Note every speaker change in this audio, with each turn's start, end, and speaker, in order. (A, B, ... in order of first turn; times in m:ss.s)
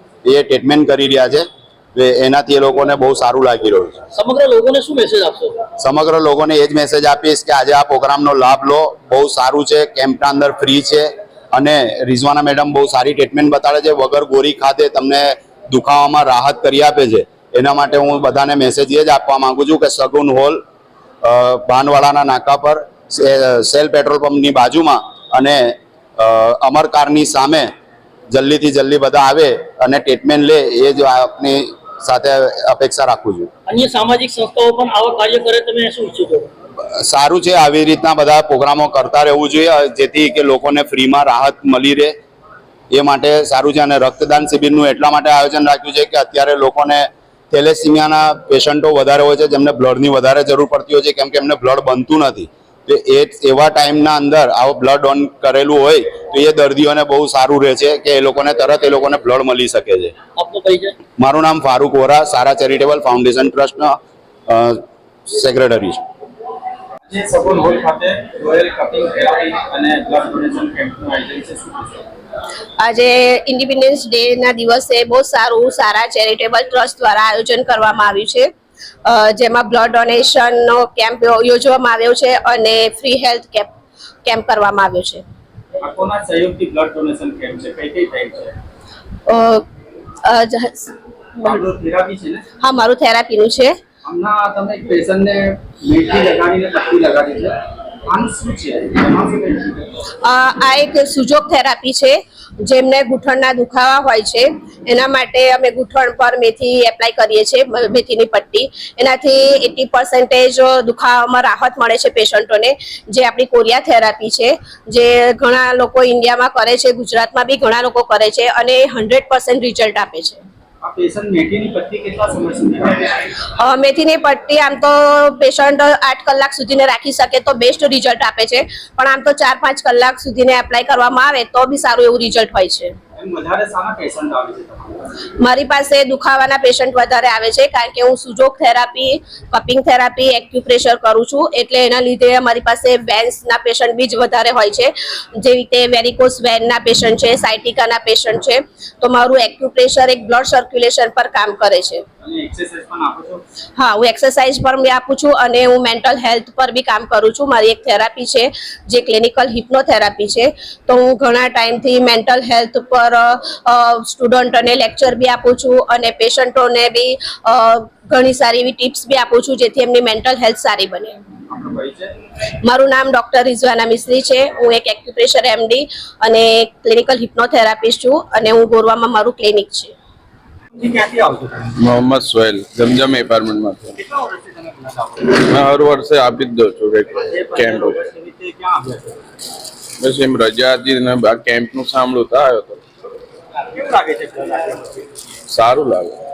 0:00.2-0:04.0 A
0:04.1-0:05.6 B
0:05.8-0:20.6 A
0:21.2-0:27.7 A
0:28.3-0:33.5 A
0:33.7-0:36.5 B
0:37.0-0:42.1 A
0:42.9-1:00.1 A
1:00.4-1:00.9 B
1:01.2-1:04.0 A
1:04.5-1:06.0 A
1:07.1-1:12.1 C
1:12.8-1:18.5 D
1:19.0-1:23.7 D
1:24.2-1:25.2 D
1:25.8-1:28.5 C
1:29.3-1:29.6 D
1:30.2-1:30.9 D
1:31.4-1:32.4 C
1:32.6-1:33.8 D
1:34.0-1:37.6 C
1:38.1-1:39.9 C
1:40.2-2:00.4 D
2:00.8-2:03.2 C
2:03.6-2:12.9 D
2:13.2-2:15.0 C
2:15.4-2:32.0 D
2:32.2-2:33.4 C
2:33.8-2:51.1 D
2:51.5-2:52.1 C
2:52.6-2:59.9 D
3:00.8-3:01.7 C
3:01.8-3:04.0 E
3:04.0-3:05.2 C
3:05.3-3:08.0 E
3:07.2-3:09.2 C
3:10.0-3:12.8 E
3:13.7-3:15.0 C
3:15.5-3:16.2 E